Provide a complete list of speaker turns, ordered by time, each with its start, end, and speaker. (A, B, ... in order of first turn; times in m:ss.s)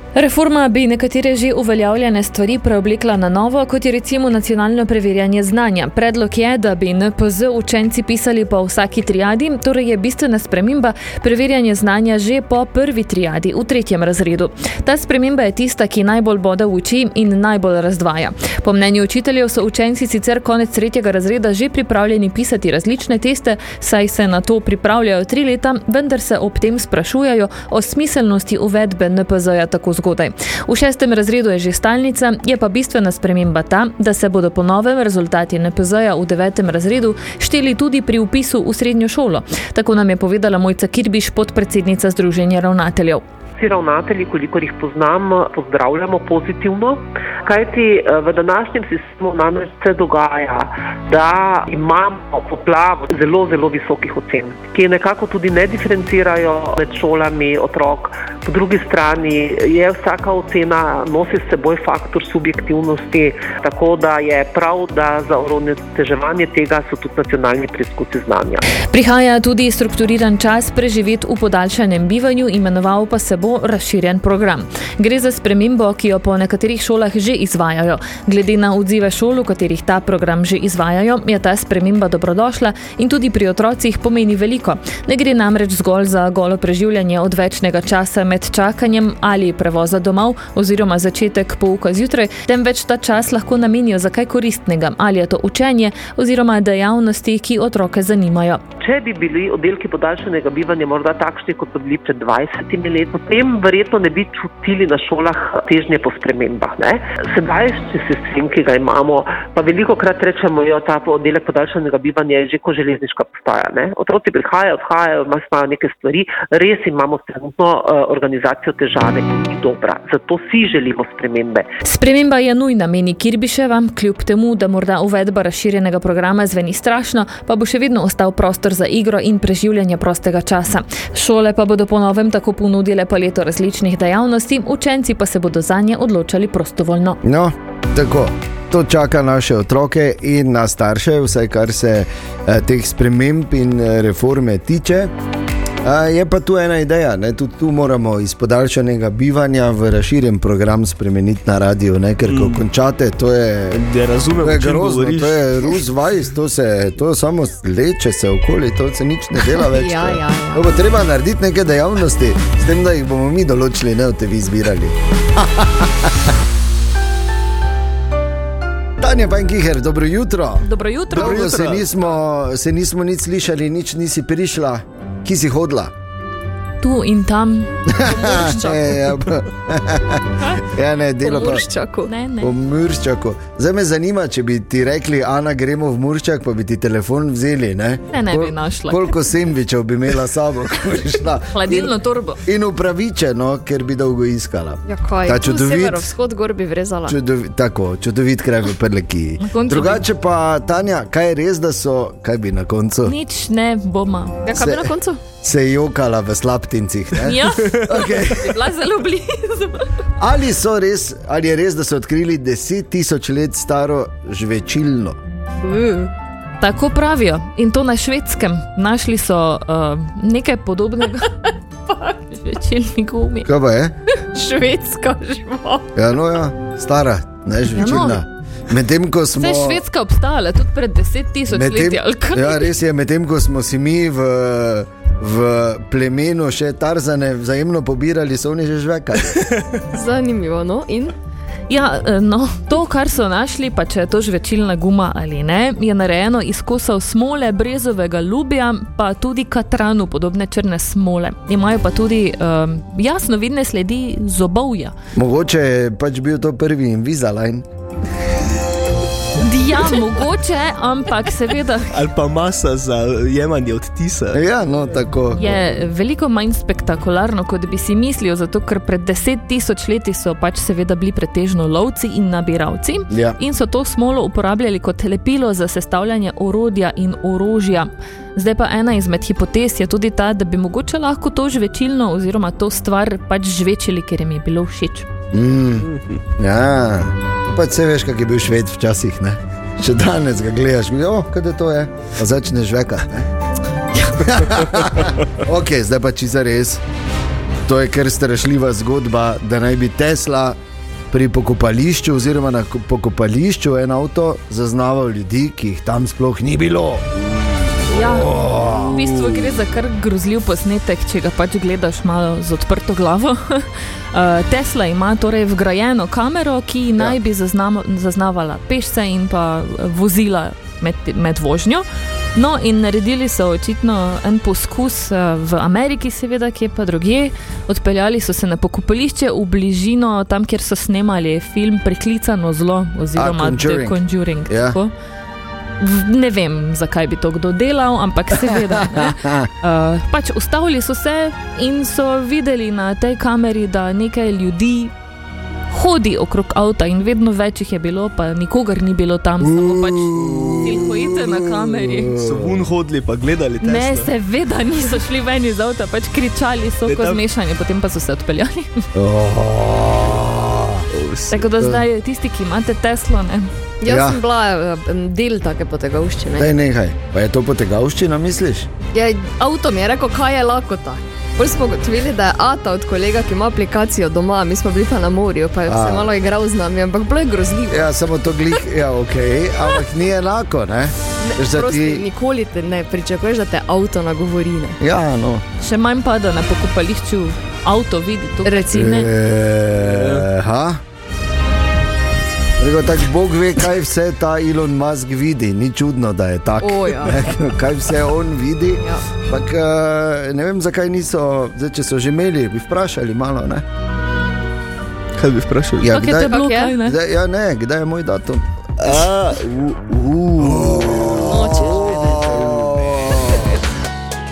0:00.2-0:43.2 A
0:43.6-1:08.6 B
1:08.9-1:38.6 A
1:38.8-2:01.7 B
2:01.8-2:17.2 A
2:17.2-2:25.1 C
2:25.8-2:33.8 C
2:32.3-2:32.7 D
2:33.7-2:35.4 D
2:34.4-2:46.1 C
2:39.6-2:40.7 E
2:49.0-2:55.9 C
2:50.6-2:51.8 A
2:51.1-2:51.8 D
2:56.8-2:58.5 A
2:57.9-3:01.6 C
2:58.1-2:59.0 E
3:01.2-3:02.1 E
3:02.0-3:02.5 A
3:02.4-3:11.9 C
3:08.1-3:09.2 A
3:11.5-3:12.4 A
3:12.4-3:16.1 C
3:14.9-3:17.2 E
3:17.1-3:23.2 C
3:19.4-3:20.1 A
3:23.0-3:24.5 A
3:24.5-3:25.2 E
3:24.5-3:24.9 C
3:25.4-3:28.6 C
3:27.2-3:29.9 A
3:30.2-3:35.2 C
3:35.6-3:36.1 E
3:36.6-3:41.4 A
3:42.0-3:43.5 A
3:43.4-3:43.9 C
3:44.4-3:45.9 E
3:46.0-3:49.8 C
3:47.7-3:48.2 A
3:49.4-3:52.7 A
3:51.5-3:59.5 C
3:59.4-3:59.6 D
3:59.9-4:01.1 E
4:01.7-4:14.9 A
4:15.2-4:17.6 C
4:19.4-4:22.0 A
4:21.9-4:24.4 D
4:24.3-4:25.4 C
4:25.4-4:45.1 A
4:33.1-4:33.4 C
4:45.3-4:53.3 C
4:45.9-4:46.2 D
4:54.2-4:56.8 C
4:57.7-5:00.6 C
5:01.1-5:07.0 C
5:07.9-5:09.2 C
5:07.9-5:34.9 A
5:33.2-5:34.0 C
5:34.5-5:34.8 C
5:35.8-5:44.9 A
5:39.0-5:39.5 C
5:45.7-5:52.2 A
5:49.5-5:52.6 C
5:52.2-5:54.1 D
5:53.6-5:58.8 A
5:56.9-5:57.2 D
5:59.0-6:00.8 C
6:00.9-6:01.5 D
6:01.3-6:03.5 A
6:03.8-6:06.5 E
6:03.9-6:04.2 C
6:06.4-6:08.7 C
6:08.9-6:17.9 E
6:15.7-6:16.1 C
6:17.7-6:22.0 C
6:21.2-6:24.8 E
6:24.8-6:25.4 C
6:25.6-6:29.1 A
6:28.7-6:30.8 C
6:29.8-6:30.3 D
6:32.6-6:43.6 C
6:36.6-6:37.3 E
6:45.2-6:45.9 D
6:45.8-6:48.4 C
6:45.9-6:47.0 A
6:46.2-6:46.8 E
6:48.8-6:50.8 D
6:50.4-6:53.6 C
6:51.3-6:52.2 E